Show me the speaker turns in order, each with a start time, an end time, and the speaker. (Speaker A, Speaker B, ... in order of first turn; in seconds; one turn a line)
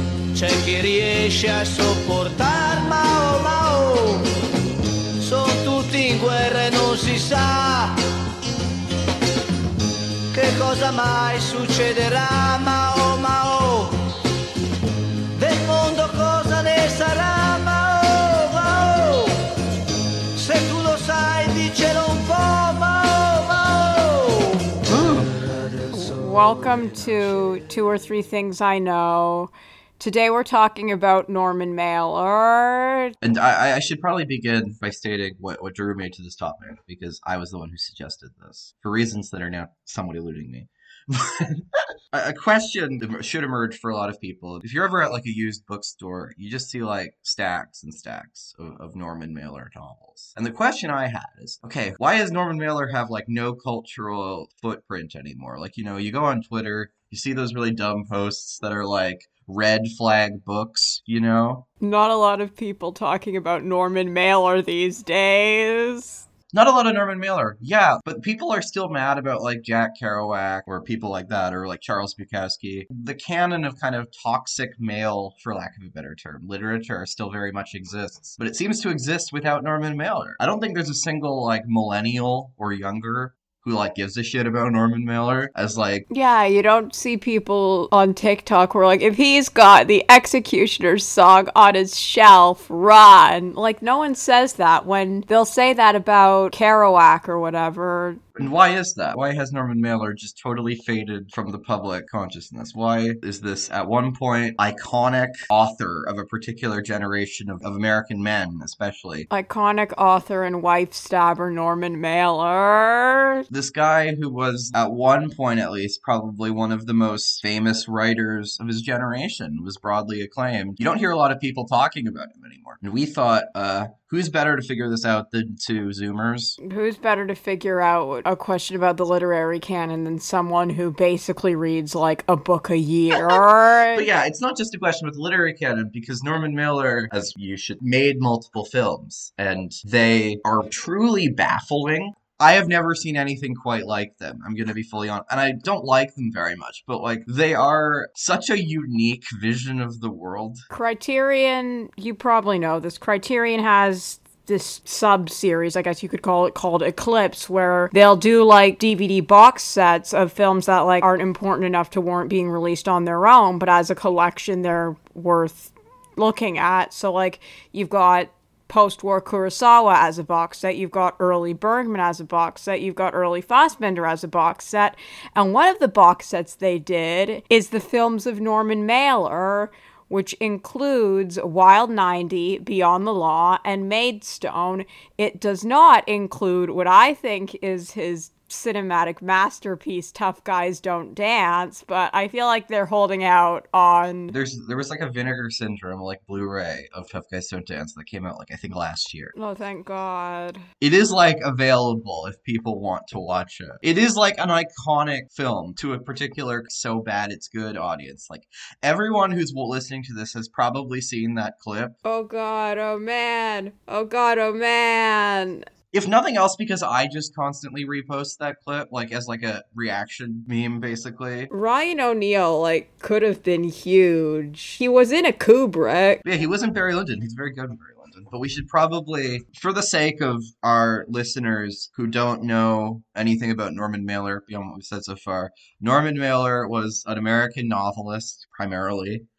Speaker A: 0.3-4.4
Speaker A: 5.2-8.1
Speaker A: 10.3-14.1
Speaker A: 15.3-19.6
Speaker A: 20.3-26.6
Speaker B: 25.9-33.1
Speaker C: 33.2-61.6
Speaker B: 61.8-66.2
Speaker C: 66.5-86.0
Speaker B: 86.1-98.3
Speaker C: 98.3-109.3
Speaker B: 109.3-113.4
Speaker C: 113.5-126.6
Speaker B: 126.6-134.1
Speaker C: 133.9-150.6
Speaker B: 150.7-194.3
Speaker C: 194.3-199.3
Speaker B: 199.3-200.6
Speaker C: 200.8-211.9
Speaker B: 212.0-215.7
Speaker C: 215.9-221.5
Speaker B: 221.5-226.2
Speaker C: 226.2-239.2